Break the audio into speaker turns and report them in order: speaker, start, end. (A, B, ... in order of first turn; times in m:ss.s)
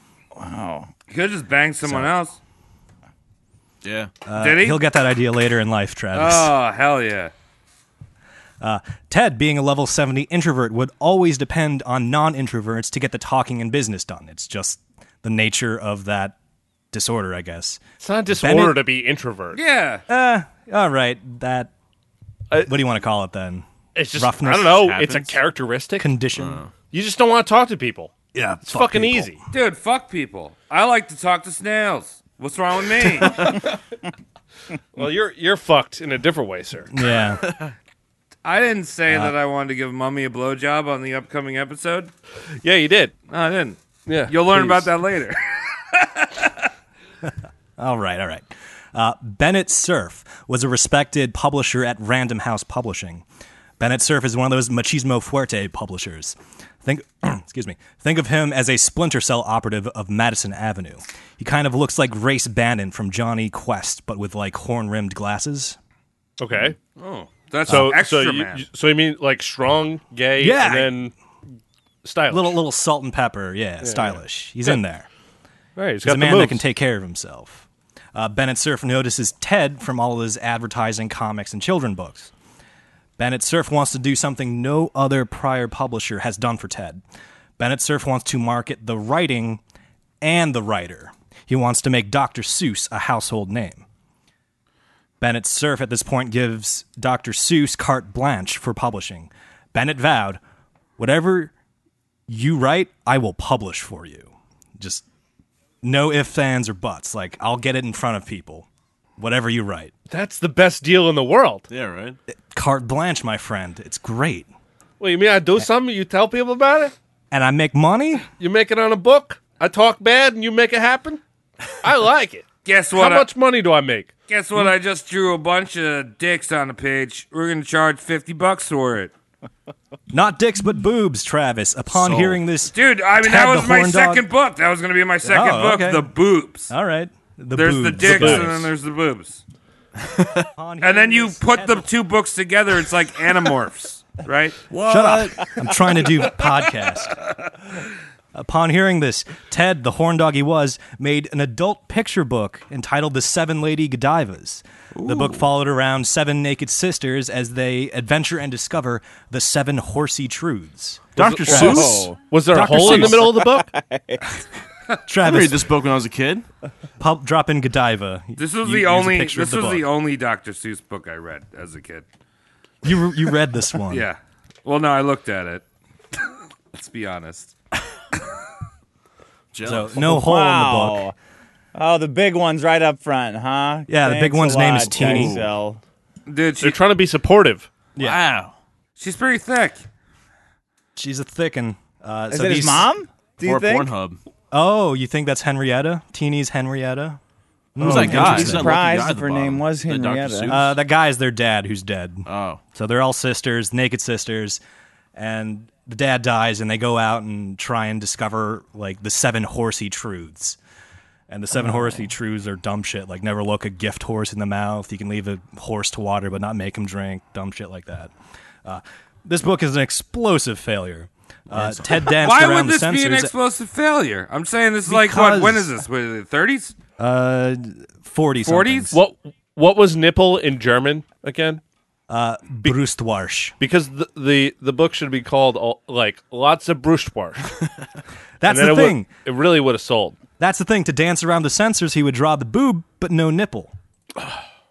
0:00.4-0:00.9 A
0:01.1-0:02.4 B
0:01.8-0:02.1 C
0:03.8-0:04.1 D
0:04.3-0:06.5 C
0:04.4-0:04.8 B
0:06.1-0:07.3 B
0:08.6-0:16.4 C
0:16.9-0:18.8 C
0:18.0-0:19.6 E
0:19.5-0:20.0 B
0:20.1-0:21.7 C
0:22.6-0:25.0 C
0:24.0-0:26.1 E
0:24.8-0:25.3 D
0:26.0-0:26.6 C
0:26.4-0:26.7 D
0:26.9-0:29.4 E
0:28.3-0:29.4 C
0:29.5-0:33.7 B
0:35.0-0:36.9 E
0:36.9-0:37.4 C
0:38.4-0:42.1 B
0:42.6-0:43.1 E
0:43.3-0:46.7 B
0:44.1-0:44.9 E
0:47.8-0:53.2 C
0:53.8-1:05.8 C
1:06.4-1:06.8 E
1:07.0-1:08.6 B
1:07.7-1:07.9 C
1:07.7-1:11.1 E
1:10.4-1:11.0 C
1:12.0-1:12.6 E
1:12.3-1:15.1 C
1:13.8-1:14.8 E
1:15.8-1:16.6 E
1:16.0-1:22.3 C
1:23.2-1:27.0 C
1:27.6-1:29.6 C
1:30.2-1:33.8 C
1:35.2-1:40.4 C
1:41.0-1:41.5 C
1:42.3-1:45.0 C
1:45.8-1:48.7 C
1:49.2-1:49.9 C
1:50.1-1:51.7 E
1:51.7-1:52.2 D
1:52.5-1:54.5 C
1:55.0-1:56.9 E
1:57.3-1:58.3 C
1:58.4-2:01.2 E
2:01.8-2:04.1 E
2:02.7-2:03.3 B
2:04.3-2:09.1 B
2:10.1-2:14.3 C
2:12.7-2:16.7 B
2:15.2-2:16.1 C
2:16.7-2:18.7 C
2:17.6-2:19.4 B
2:18.0-2:18.5 E
2:20.0-2:20.5 D
2:20.6-2:21.8 C
2:20.8-2:24.6 B
2:24.7-2:25.5 D
2:24.8-2:27.2 C
2:28.3-2:43.4 C
2:35.1-2:35.3 D
2:41.2-2:42.2 A
2:41.2-2:43.7 E
2:42.7-2:44.2 A
2:45.1-2:45.7 C
2:45.2-2:46.4 D
2:47.0-2:49.9 C
2:48.4-2:52.1 B
2:52.8-2:54.1 C
2:53.9-2:55.6 B
2:56.7-2:57.5 B
2:59.5-3:00.0 D
2:59.6-3:01.1 C
3:00.0-3:01.2 A
3:01.8-3:05.8 A
3:03.9-3:05.4 C
3:04.9-3:05.5 D
3:06.3-3:06.8 B
3:06.6-3:07.7 E
3:08.0-3:08.5 D
3:09.0-3:09.8 B
3:11.0-3:12.9 C
3:12.3-3:13.9 A
3:13.4-3:14.2 D
3:14.5-3:17.2 C
3:17.8-3:18.8 C
3:17.8-3:20.7 D
3:17.8-3:20.6 A
3:20.5-3:24.6 C
3:22.3-3:22.6 D
3:25.2-3:30.6 C
3:31.3-3:38.1 C
3:38.6-3:43.3 C
3:41.5-3:42.1 D
3:42.1-3:46.8 B
3:44.9-3:45.7 C
3:47.0-3:49.0 C
3:48.4-3:49.0 B
3:48.9-3:51.6 E
3:52.1-3:53.6 C
3:53.6-3:57.5 E
3:58.4-3:59.1 C
3:58.5-4:00.2 E
4:00.4-4:03.8 C